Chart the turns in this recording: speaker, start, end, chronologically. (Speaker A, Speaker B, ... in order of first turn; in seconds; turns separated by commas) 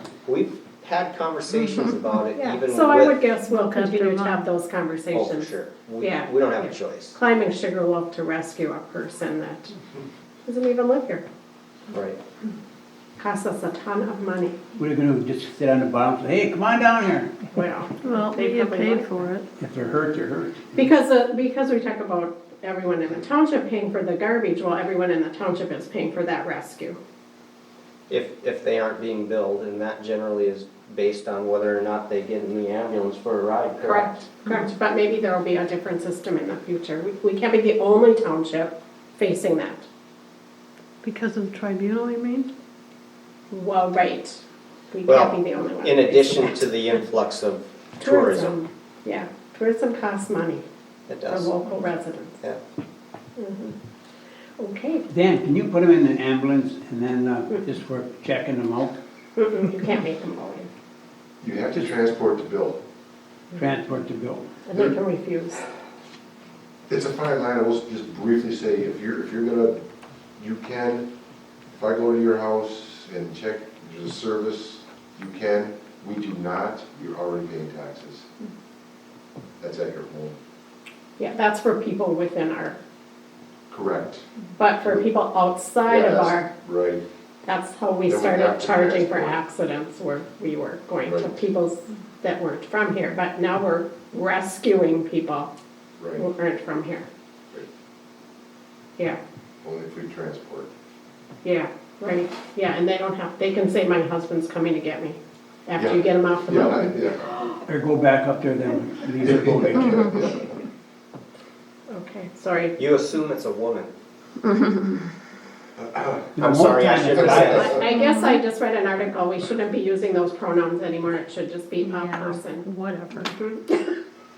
Speaker A: 0.3-3.2, Speaker B: 2.4-9.8, Speaker C: 3.5-4.4, Speaker A: 5.1-7.2, Speaker B: 10.4-11.2, Speaker A: 11.9-12.2, Speaker B: 13.2-14.6, Speaker D: 14.8-17.5, Speaker B: 17.6-19.3, Speaker C: 18.0-19.5, Speaker D: 19.6-20.7, Speaker B: 20.8-27.0, Speaker A: 28.1-34.1, Speaker B: 33.8-39.9, Speaker C: 41.0-42.5, Speaker B: 43.5-46.7, Speaker A: 45.1-48.6, Speaker B: 48.0-50.6, Speaker A: 51.1-51.5, Speaker B: 51.3-52.4, Speaker B: 53.4-53.8, Speaker B: 54.6-55.0, Speaker D: 55.1-59.0, Speaker B: 59.4-60.7, Speaker E: 61.4-62.8, Speaker D: 63.5-64.5, Speaker B: 64.7-65.6, Speaker E: 66.9-69.8, Speaker E: 70.4-71.1, Speaker E: 71.7-78.3, Speaker E: 79.6-80.4, Speaker B: 81.2-82.8, Speaker E: 83.7-84.2, Speaker B: 84.6-86.5, Speaker E: 85.8-87.0, Speaker B: 87.5-95.5, Speaker E: 88.1-89.4, Speaker E: 91.1-91.4, Speaker E: 96.0-96.3, Speaker B: 96.2-97.1, Speaker E: 99.6-100.7, Speaker B: 101.4-107.5, Speaker E: 105.8-107.5, Speaker D: 107.7-110.2, Speaker E: 109.2-110.5, Speaker B: 111.9-112.8, Speaker A: 112.8-113.9, Speaker C: 114.5-115.0, Speaker E: 115.8-116.3, Speaker D: 116.4-117.7, Speaker A: 116.4-117.8, Speaker E: 117.1-117.9, Speaker B: 117.2-122.7, Speaker C: 117.9-118.3, Speaker C: 121.8-123.4, Speaker B: 123.2-123.9